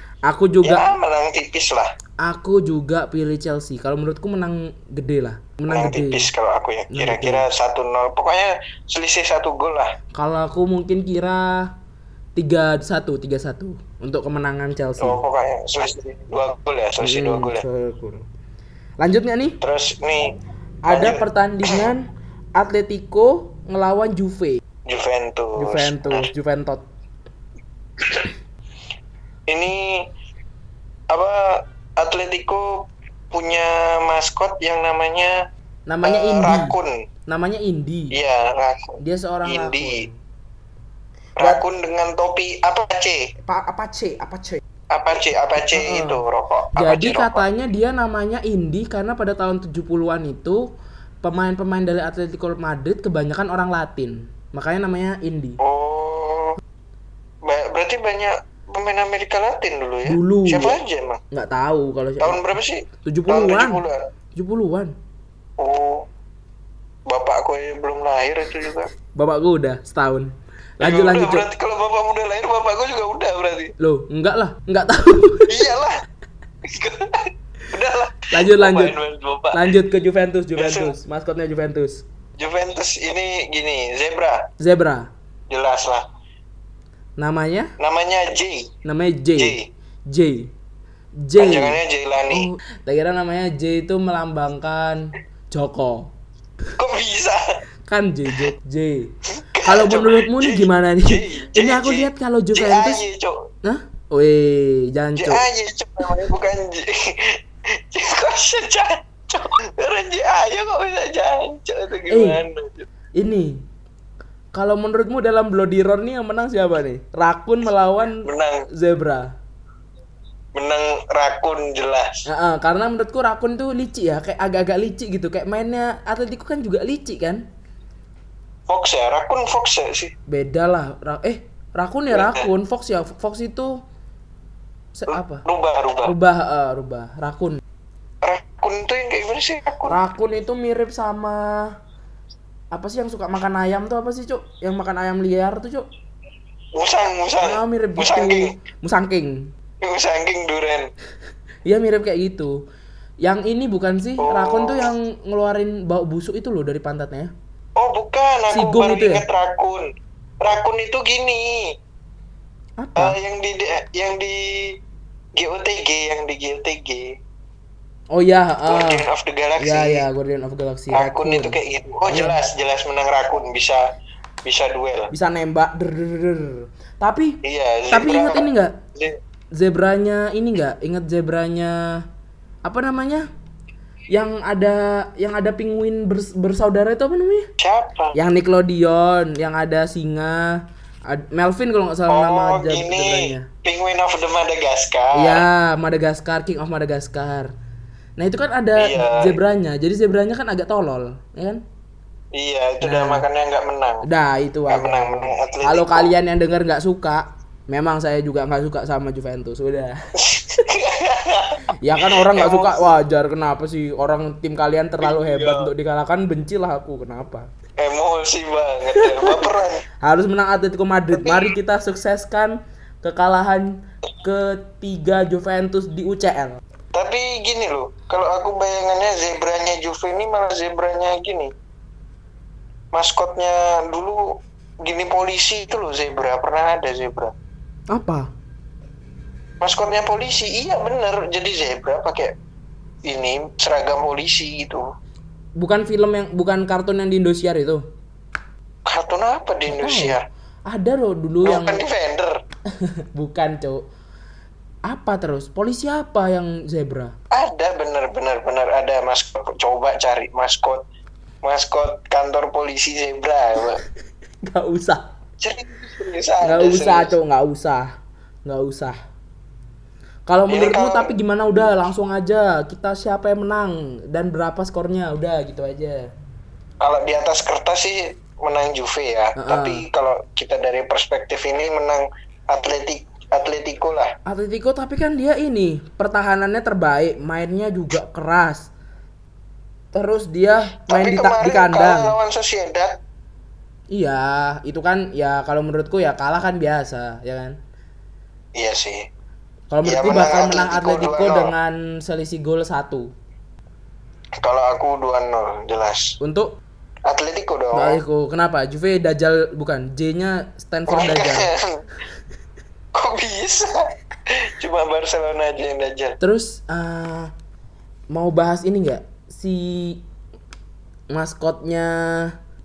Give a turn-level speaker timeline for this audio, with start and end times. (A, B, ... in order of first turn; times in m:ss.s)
0:00.3-0:00.9 A
0:00.6-0:01.9 B
0:02.2-0:06.3 A
0:05.7-0:09.9 B
0:06.9-0:07.5 A
0:10.1-0:11.7 A
0:12.4-0:15.2 A
0:15.0-0:17.6 B
0:17.0-0:18.2 A
0:19.0-0:19.6 A
0:19.6-0:20.4 B
0:20.9-0:24.6 A
0:20.9-0:21.9 B
0:24.9-0:26.3 B
0:25.6-0:26.8 A
0:28.0-0:28.3 B
0:29.5-0:30.1 B
0:31.1-0:35.4 B
0:35.9-0:36.7 A
0:36.0-0:37.0 B
0:37.3-0:38.2 A
0:38.1-0:40.1 B
0:39.0-0:40.2 A
0:41.4-0:43.3 B
0:43.4-0:44.6 A
0:44.9-0:47.4 B
0:45.6-0:46.2 A
0:46.8-0:50.7 A
0:51.2-0:55.6 A
0:55.6-0:56.6 B
0:57.4-1:01.2 B
1:00.0-1:00.8 A
1:01.3-1:02.4 A
1:02.2-1:04.0 B
1:03.0-1:03.8 A
1:04.4-1:04.9 A
1:05.6-1:06.1 B
1:07.1-1:08.9 B
1:09.1-1:11.5 A
1:10.8-1:13.7 B
1:13.8-1:15.7 A
1:15.5-1:16.0 B
1:16.6-1:19.7 B
1:18.3-1:19.0 A
1:19.5-1:22.0 A
1:20.6-1:20.9 B
1:22.4-1:24.5 B
1:24.6-1:25.1 A
1:25.5-1:26.0 B
1:27.2-1:27.7 A
1:27.8-1:28.7 B
1:28.8-1:29.6 A
1:29.4-1:29.7 B
1:30.1-1:30.5 A
1:31.2-1:36.1 A
1:31.4-1:32.5 B
1:36.8-1:37.5 B
1:37.9-1:39.1 A
1:39.3-1:43.5 B
1:39.6-1:43.0 A
1:43.6-1:45.4 A
1:45.2-1:52.9 B
1:52.1-1:52.4 A
1:53.2-1:53.6 A
1:54.5-1:59.3 A
1:58.2-1:58.6 B
2:00.5-2:02.2 B
2:02.2-2:07.4 A
2:08.7-2:10.1 B
2:10.3-2:13.8 A
2:12.1-2:12.5 B
2:14.9-2:15.4 A
2:15.1-2:16.1 B
2:16.0-2:17.6 A
2:18.2-2:20.0 B
2:19.9-2:21.7 A
2:22.7-2:25.9 A
2:26.7-2:28.5 B
2:27.4-2:29.5 A
2:29.8-2:30.9 B
2:31.6-2:32.6 A
2:33.2-2:37.3 A
2:34.2-2:34.9 B
2:37.8-2:39.9 B
2:38.5-2:39.2 A
2:40.4-2:41.8 B
2:42.8-2:43.2 A
2:43.0-2:44.8 B
2:45.4-2:47.2 B
2:48.1-2:49.0 A
2:48.6-2:50.0 B
2:49.6-2:51.6 A
2:50.9-2:53.8 B
2:52.1-2:52.4 A
2:54.4-2:55.1 B
2:55.1-2:57.4 A
2:57.4-2:59.2 B
2:57.9-2:58.8 A
2:59.5-3:02.0 A
3:02.6-3:03.3 A
3:04.1-3:07.5 A
3:07.6-3:08.2 B
3:08.1-3:13.5 A
3:12.1-3:15.4 B
3:15.1-3:17.5 A
3:18.2-3:21.6 A
3:18.8-3:19.4 B
3:22.3-3:24.0 B
3:22.8-3:23.2 A
3:24.0-3:30.0 A
3:24.7-3:26.1 B
3:30.2-3:32.9 B
3:31.8-3:37.5 A
3:35.0-3:35.7 B
3:37.8-3:39.8 B
3:39.0-3:46.6 A
3:41.1-3:41.5 B
3:46.9-3:51.5 B
3:52.9-3:57.3 B
3:57.9-3:58.3 A
3:59.6-4:02.3 B
4:03.0-4:04.9 B
4:05.6-4:07.8 A
4:08.9-4:10.2 B
4:09.6-4:11.8 A
4:11.4-4:12.4 B
4:12.8-4:13.9 A
4:14.9-4:17.1 A
4:17.3-4:20.8 B
4:21.4-4:23.8 B
4:24.4-4:25.1 A
4:25.4-4:27.1 B
4:26.4-4:27.9 A
4:28.4-4:29.0 A
4:30.3-4:36.1 A
4:30.5-4:31.2 B
4:36.8-4:44.1 B
4:39.4-4:39.9 A
4:44.2-4:48.7 A
4:49.9-4:52.2 A
4:50.9-4:53.0 B
4:53.9-4:57.6 A
4:58.5-4:59.1 B
4:59.7-5:03.1 A
4:59.8-5:01.5 B
5:04.4-5:06.2 B
5:06.2-5:06.5 A
5:07.1-5:08.0 B
5:07.7-5:11.5 A
5:10.9-5:11.8 B
5:12.9-5:16.2 B
5:16.2-5:17.3 A
5:18.1-5:20.0 A
5:21.1-5:22.4 A